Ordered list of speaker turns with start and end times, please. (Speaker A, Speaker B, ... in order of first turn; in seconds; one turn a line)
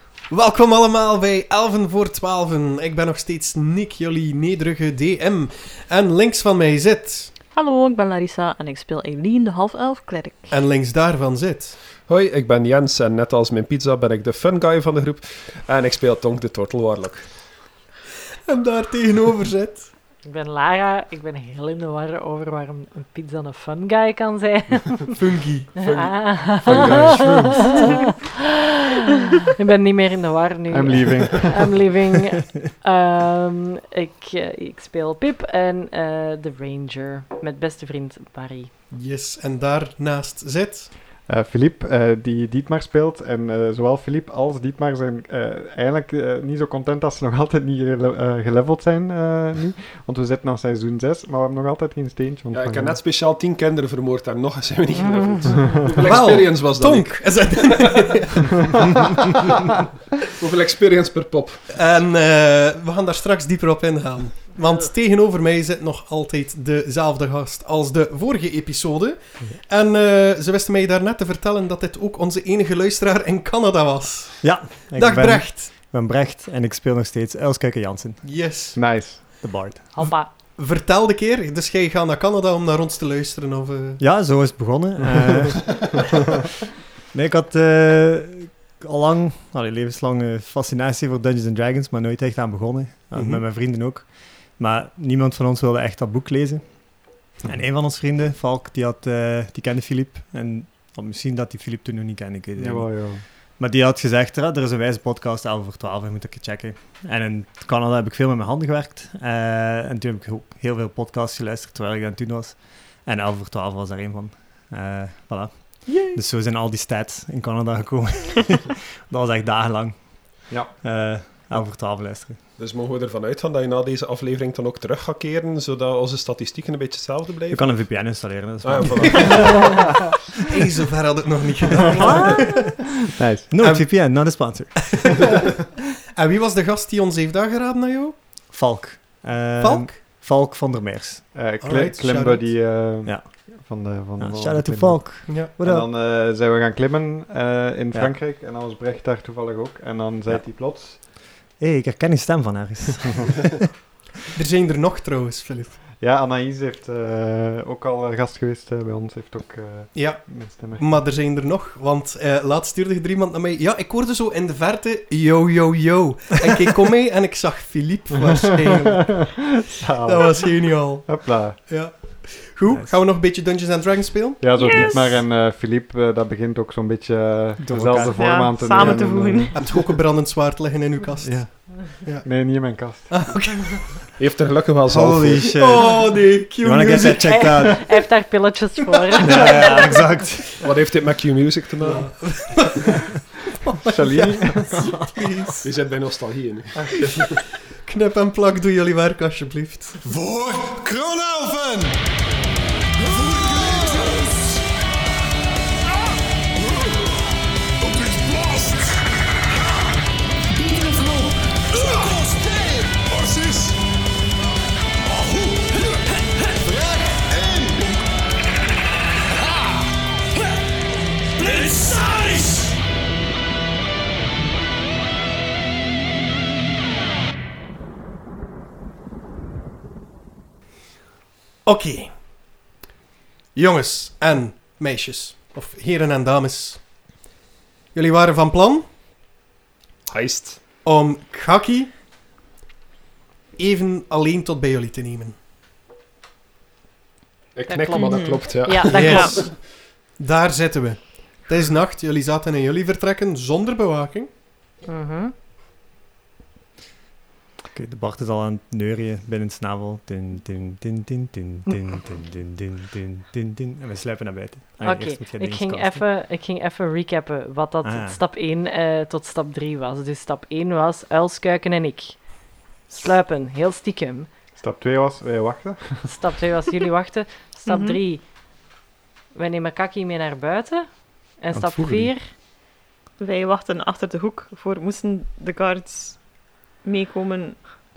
Speaker A: 0.3-7.3
Speaker B: 7.5-10.5
Speaker A: 10.5-11.8
Speaker C: 12.1-17.5
Speaker A: 18.5-19.9
Speaker D: 20.2-25.1
Speaker A: 25.1-25.7
Speaker C: 25.8-27.9
Speaker D: 25.8-38.7
Speaker E: 26.6-27.9
Speaker E: 30.7-31.9
Speaker A: 38.9-40.9
Speaker E: 41.2-53.0
Speaker C: 52.5-58.2
Speaker D: 55.0-55.6
Speaker A: 56.0-59.2
Speaker C: 60.4-61.9
Speaker A: 61.7-75.7
Speaker F: 74.4-78.8
Speaker A: 78.2-79.3
Speaker E: 78.8-79.5
Speaker F: 79.4-80.1
Speaker D: 80.0-80.3
Speaker A: 80.5-84.0
Speaker F: 84.0-86.0
Speaker F: 87.1-122.4
Speaker E: 102.6-103.2
Speaker E: 120.5-120.7
Speaker C: 122.6-129.8
Speaker F: 127.5-129.9
Speaker A: 129.2-129.6
Speaker A: 130.4-132.8
Speaker F: 132.0-132.6
Speaker D: 132.0-132.4
Speaker E: 133.2-133.5
Speaker F: 133.5-135.4
Speaker A: 133.6-135.5
Speaker A: 136.1-138.2
Speaker F: 138.5-141.3
Speaker A: 139.6-140.0
Speaker E: 141.3-151.0
Speaker A: 141.6-142.5
Speaker F: 143.0-145.9
Speaker A: 145.3-145.5
Speaker F: 150.3-151.1
Speaker F: 151.6-153.5
Speaker A: 154.3-155.8
Speaker E: 156.0-161.0
Speaker A: 159.9-174.5
Speaker E: 168.9-172.0
Speaker F: 172.7-173.0
Speaker E: 174.4-179.6
Speaker B: 174.6-174.9
Speaker F: 174.7-175.2
Speaker F: 177.6-179.1
Speaker B: 178.1-179.7
Speaker A: 179.6-184.1
Speaker E: 181.2-183.3
Speaker C: 184.2-185.7
Speaker F: 184.9-188.1
Speaker A: 185.5-187.7
Speaker D: 187.0-189.9
Speaker A: 189.2-189.9
Speaker F: 189.2-190.5
Speaker C: 190.6-192.3
Speaker A: 191.8-195.7
Speaker E: 193.9-194.9
Speaker C: 195.6-197.4
Speaker A: 197.7-200.0
Speaker G: 200.0-202.0
Speaker G: 203.0-204.6
Speaker G: 207.8-209.0
Speaker G: 211.8-213.7
Speaker G: 215.1-215.9
Speaker G: 216.6-217.9
Speaker G: 221.4-222.7
Speaker A: 231.7-232.2
Speaker A: 233.5-236.8
Speaker A: 237.9-238.9
Speaker C: 240.1-240.6
Speaker A: 240.8-241.9
Speaker A: 243.6-245.4
Speaker C: 247.6-249.8
Speaker D: 247.7-249.4
Speaker B: 247.9-248.5
Speaker A: 248.9-254.3
Speaker B: 249.1-249.3
Speaker D: 254.9-255.3
Speaker F: 257.7-266.1
Speaker D: 264.8-274.3
Speaker F: 267.8-268.2
Speaker E: 274.6-276.2
Speaker D: 276.1-278.2
Speaker B: 277.7-278.0
Speaker D: 279.3-282.3
Speaker F: 281.5-282.1
Speaker B: 283.2-287.7